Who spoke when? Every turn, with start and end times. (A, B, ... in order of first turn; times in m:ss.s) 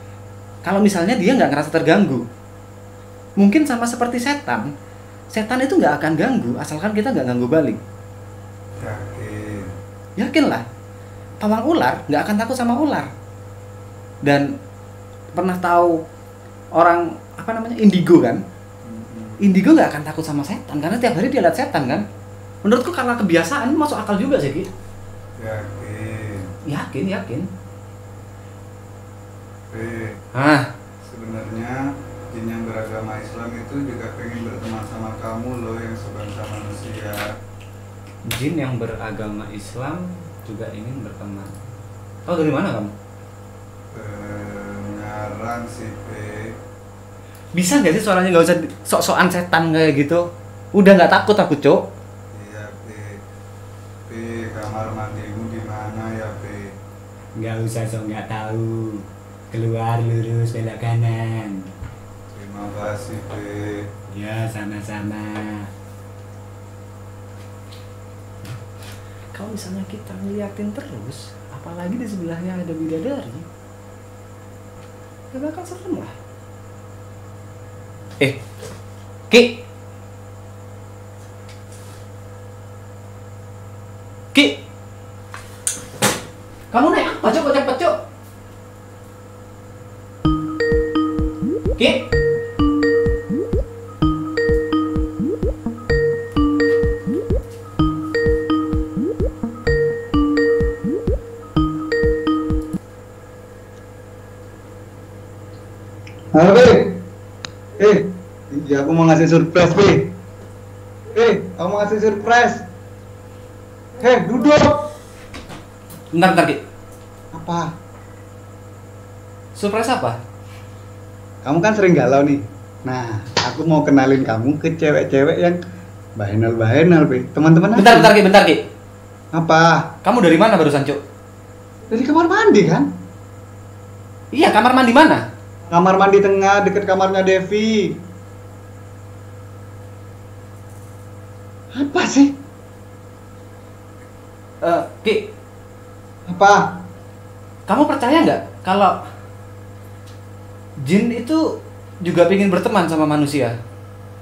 0:00.6-0:02.2 A
0:03.4-0:04.7 A
0:05.3-0:07.8 A
0:08.8-0:09.6 B
0:10.2-0:10.6 A
0:11.4-0:13.1 A
0:15.3-0:16.0 A
0:16.8-0:18.4 A
0:18.9-0:19.4 B
0:19.4-0:22.0 A
0:22.6-0:24.7 A
0:25.4-0:26.4 B
0:26.7-0:27.4 A
0:29.7-0:30.2 B
0:30.3-0:30.7 A
0:31.0-0:31.8 B
0:32.3-0:37.2 B
0:38.3-0:41.6 A
0:42.3-0:42.9 A
0:43.9-0:46.3 B
0:47.6-0:50.2 A
0:50.8-0:51.8 A
0:52.3-0:53.2 B
0:54.1-0:56.6 B
0:57.4-1:01.6 A
1:02.3-1:03.6 B
1:04.1-1:05.7 A
1:09.3-1:13.4 A
1:15.3-1:16.1 A
1:19.3-1:19.6 A
1:24.3-1:24.6 A
1:26.7-1:27.9 A
1:31.8-1:32.1 A
1:46.3-1:46.9 C
1:47.8-1:50.0 C
1:51.1-1:52.6 C
1:54.0-1:54.8 C
1:56.1-1:56.6 A
1:57.3-1:57.7 C
1:59.6-2:00.2 A
2:01.4-2:05.6 C
2:06.2-2:08.2 C
2:07.8-2:08.6 A
2:09.3-2:09.8 C
2:10.0-2:11.0 A
2:11.9-2:12.9 C
2:14.3-2:15.2 A
2:15.7-2:18.0 C
2:21.7-2:22.3 C
2:24.6-2:25.2 A
2:26.3-2:26.6 C
2:27.7-2:28.9 A
2:30.8-2:31.4 A
2:32.0-2:33.6 A